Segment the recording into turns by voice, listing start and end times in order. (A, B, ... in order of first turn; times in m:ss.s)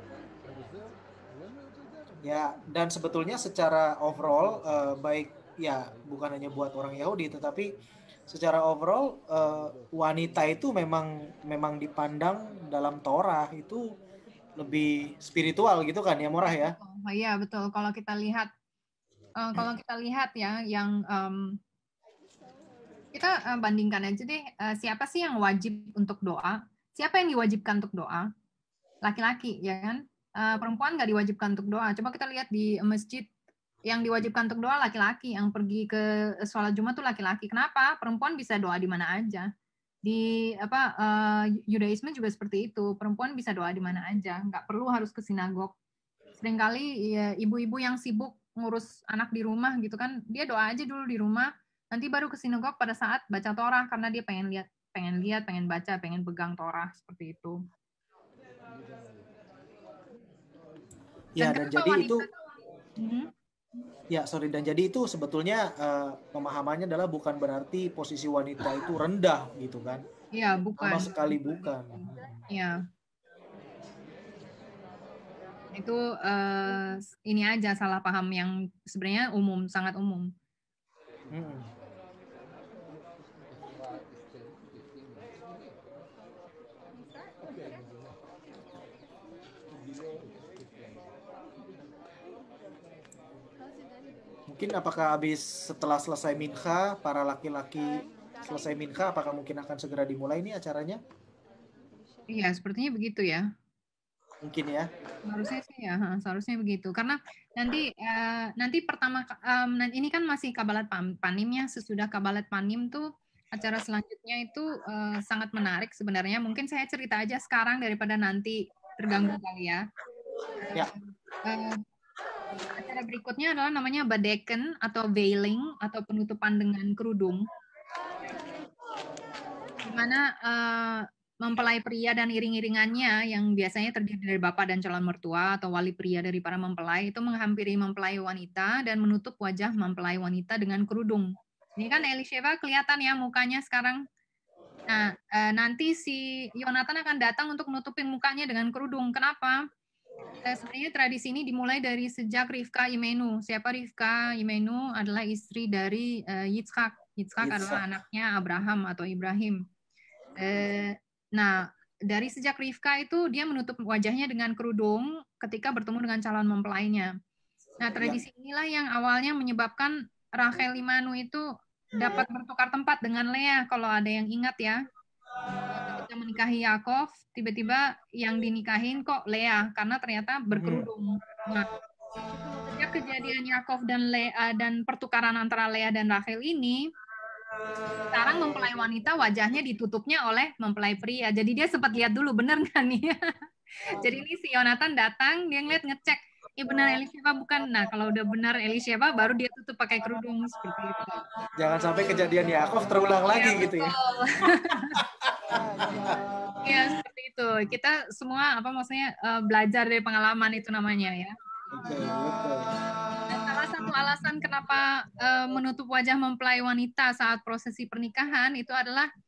0:02.2-0:07.7 A
0:08.3-0:13.8 A
0:14.6-0:16.8 A
0:16.6-0:18.5 B
0:19.4-0:21.6 B
0:23.1-0:28.3 B
0:29.0-0:33.3 B
0:33.9-0:39.5 B
0:40.0-0:45.7 B
0:46.4-0:57.6 B
1:01.4-1:02.3 A
1:01.4-1:02.3 B
1:03.0-1:03.3 B
1:04.1-1:10.0 A
1:10.4-1:11.1 B
1:10.8-1:12.0 A
1:12.5-1:12.8 B
1:15.8-1:20.3 B
1:21.3-1:21.7 A
1:34.5-1:41.0 A
1:42.3-1:43.4 B
1:44.4-1:44.9 A
1:45.3-1:59.8 B
2:00.7-2:00.9 B
2:01.5-2:01.8 B
2:02.8-2:07.4 B
2:09.8-2:24.0 B
2:24.9-2:29.6 B
2:30.4-2:39.6 B
2:37.4-2:37.8 A
2:40.4-2:47.1 B
2:47.8-2:51.4 B
2:52.0-2:54.8 B
2:55.7-3:01.7 B
3:00.5-3:00.9 A
3:02.8-3:06.8 B
3:08.1-3:13.2 B
3:13.9-3:21.2 B
3:21.6-3:23.9 A
3:23.3-3:24.8 B
3:26.6-3:31.4 B
3:31.7-3:32.7 A
3:33.3-3:39.1 B